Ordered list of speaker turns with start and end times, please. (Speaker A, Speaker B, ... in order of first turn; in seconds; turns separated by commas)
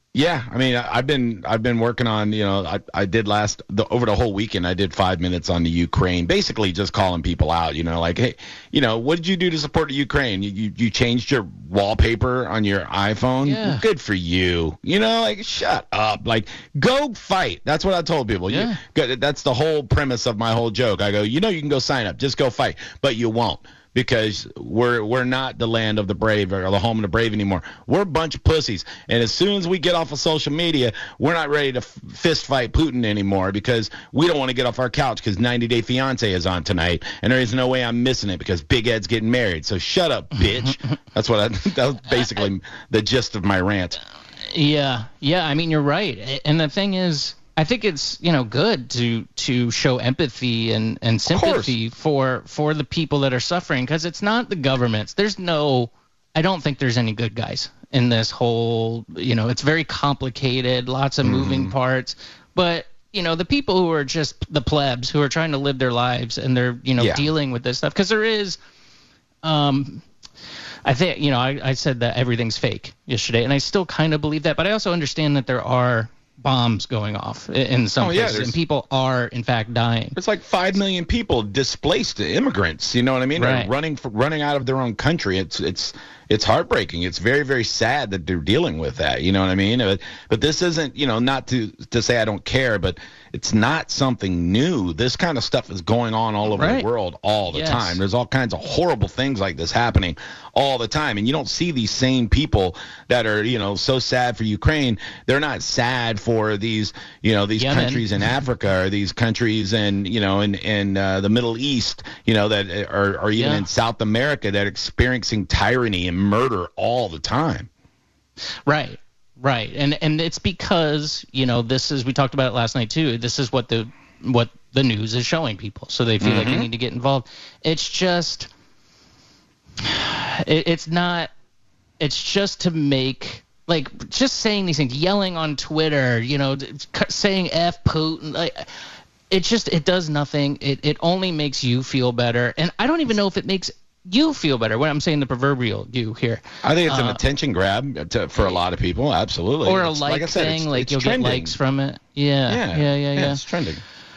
Speaker A: 0.1-44.0, Speaker B: 13.4-13.8, Speaker B: 18.5-18.8, Speaker B: 40.4-40.7, Speaker B: 42.2-42.4, Speaker B: 44.4-68.6, Speaker A: 51.3-51.8, Speaker A: 61.2-61.8, Speaker A: 67.0-67.3, Speaker B: 69.4-70.0, Speaker B: 70.8-80.2, Speaker A: 78.0-78.6, Speaker A: 80.2-117.7, Speaker B: 83.4-83.7, Speaker B: 96.5-96.9, Speaker B: 97.5-98.0, Speaker B: 107.6-108.1, Speaker B: 113.4-113.7, Speaker B: 118.7-128.5, Speaker A: 126.2-126.7, Speaker B: 129.8-131.3, Speaker B: 132.0-138.7, Speaker B: 139.3-147.2, Speaker A: 146.6-151.6, Speaker B: 149.6-153.4, Speaker A: 152.5-153.8